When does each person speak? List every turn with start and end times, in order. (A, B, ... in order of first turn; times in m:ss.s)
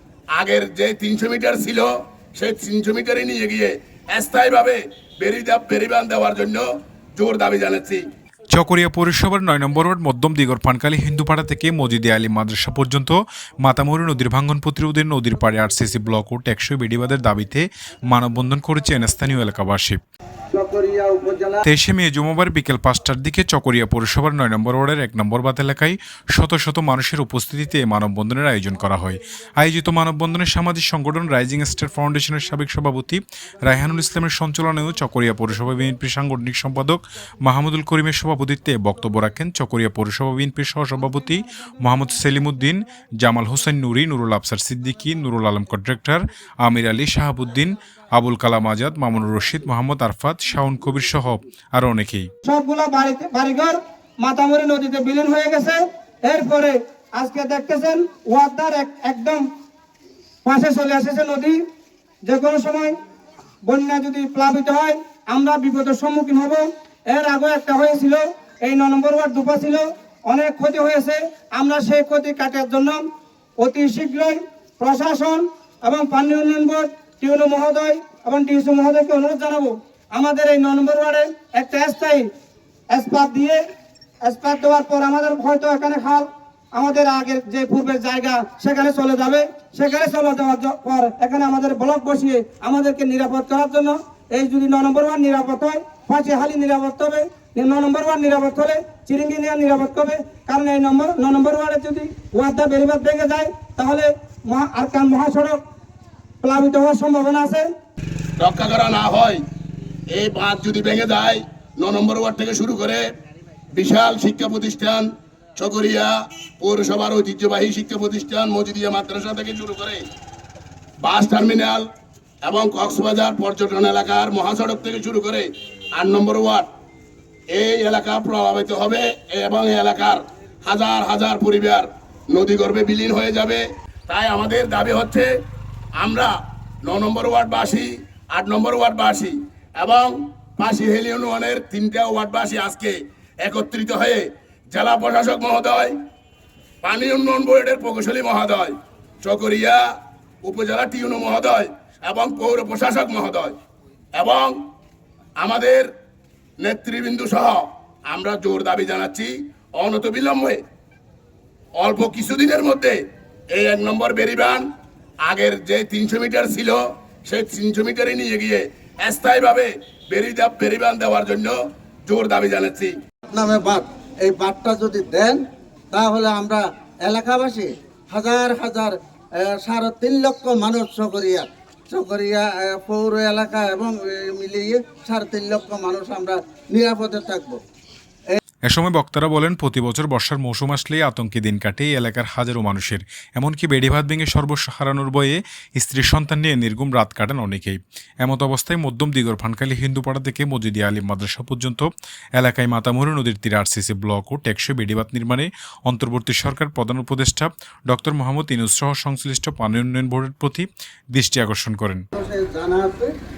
0:00.3-0:08.0 A
0:08.5-0:20.0 B
0:20.5-0:21.6 C
0:21.6-0:52.3 B
0:52.4-0:59.4 D
1:00.4-1:01.6 D
1:02.2-1:03.0 D
1:03.6-1:13.0 D
1:13.6-1:22.3 D
1:22.9-1:23.6 D
1:24.2-1:45.6 D
1:46.4-1:47.7 D
1:48.4-1:49.4 A
1:50.1-1:53.1 A
1:53.7-2:00.0 A
2:01.0-2:01.9 A
2:02.4-2:06.7 A
2:07.5-2:15.3 A
2:16.0-2:26.0 A
2:26.8-2:29.9 A
2:30.4-2:33.6 A
2:34.1-2:34.6 A
2:35.4-2:35.9 A
2:36.6-2:40.6 A
2:41.8-2:44.7 A
2:45.2-2:52.9 A
2:53.3-3:07.6 C
3:08.7-3:32.0 B
3:32.2-3:33.1 C